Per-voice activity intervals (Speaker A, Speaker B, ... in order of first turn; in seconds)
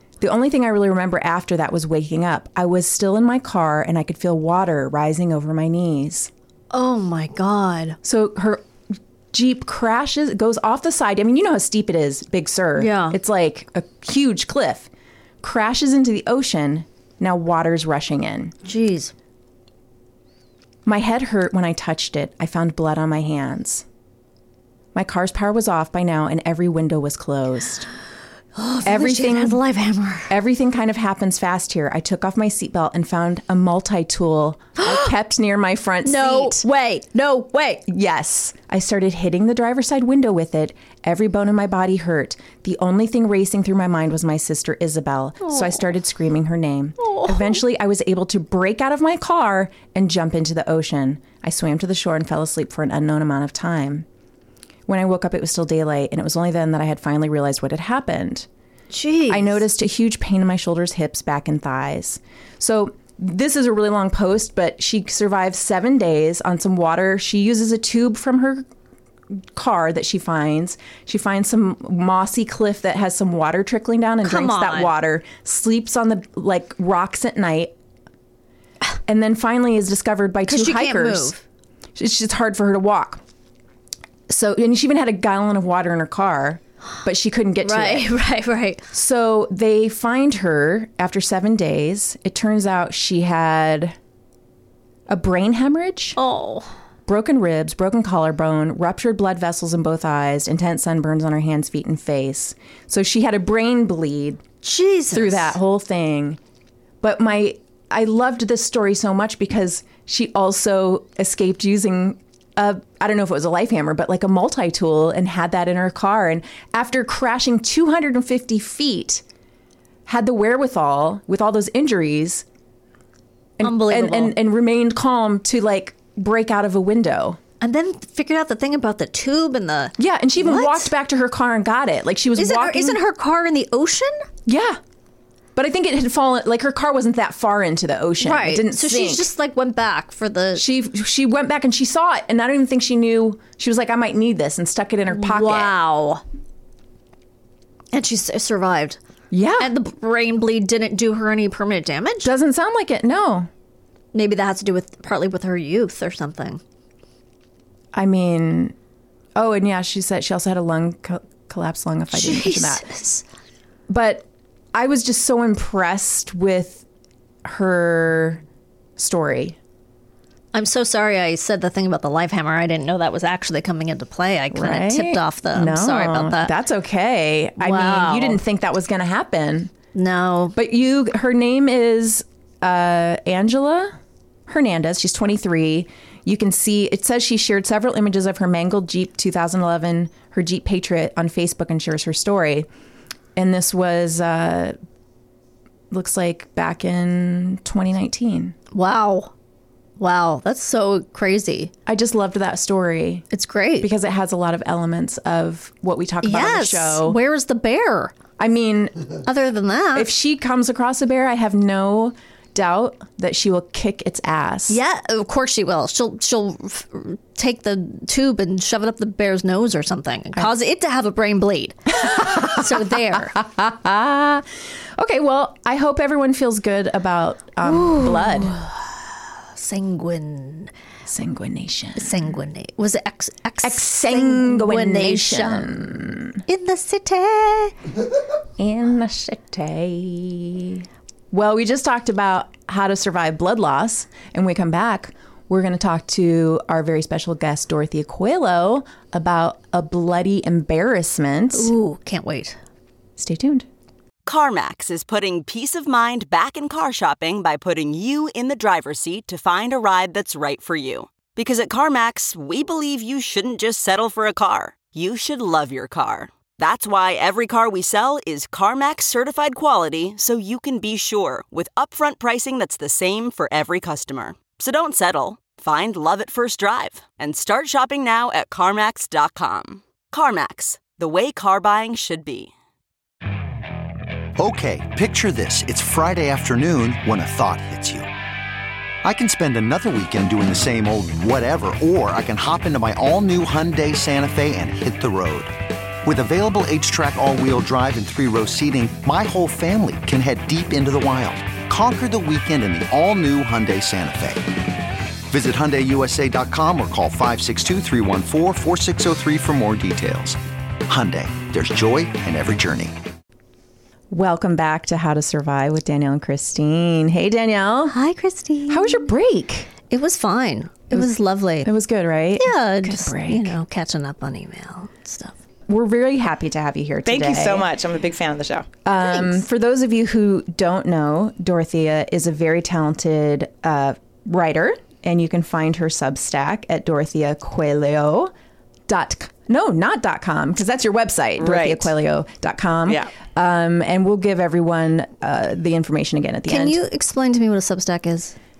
Speaker A: 0.2-6.3, 8.0-8.7, 9.3-14.9, 15.4-18.5, 20.9-23.9, 24.9-27.9, 28.8-29.6, 30.3-36.6, 37.9-54.1, 54.9-58.5, 59.3-68.7, 69.4-77.7, 79.1-81.4, 82.0-83.2, 84.3-88.1, 88.9-94.0, 95.1-96.2, 97.1-104.4, 105.1-106.4, 107.0-119.2, 120.1-122.5, 123.6-127.4, 130.0-133.0, 134.5-134.8, 135.6-139.3, 140.6-145.7, 149.3-149.7, 152.2-153.5, 157.9-158.8, 159.3-162.9, 163.9-166.8, 167.4-168.4, 169.0-169.6, 174.5-179.7, 180.6-183.9, 184.5-192.7, 193.3-194.8, 195.9-198.6, 201.9-203.3, 203.8-207.2, 208.4-209.1, 209.9-214.8, 222.1-228.6, 231.1-232.3, 233.6-236.4, 238.6-251.7, 253.2-253.7, 314.1-318.0, 318.7-319.7, 321.6-323.6, 325.7-327.7, 328.9-338.3, 338.9-346.8
Speaker B: 6.7-8.0, 12.8-13.2, 18.6-19.1, 28.6-30.3, 34.8-35.1, 36.0-37.9, 45.4-45.8, 47.0-47.6, 58.9-59.6, 74.2-75.0, 80.5-81.4, 87.6-88.8, 96.2-96.7, 104.6-105.6, 123.6-124.4, 127.6-130.9, 132.4-134.2, 138.2-140.6, 145.1-146.2, 147.9-149.0, 149.6-152.3, 154.1-156.6, 162.1-163.2, 170.5-176.5, 177.6-178.4, 179.9-180.6, 198.7-199.3, 200.0-201.7, 203.3-203.9, 206.2-208.2, 209.2-210.1, 214.7-223.4, 227.6-228.8, 229.6-230.7, 232.0-237.8, 251.5-252.6, 317.9-319.1, 319.9-321.7, 322.4-325.3, 329.0-329.4, 346.5-348.4
Speaker C: 254.2-282.5
Speaker D: 284.4-288.1, 289.0-304.7, 305.3-312.9
Speaker E: 327.1-328.7, 341.4-341.9, 342.9-343.1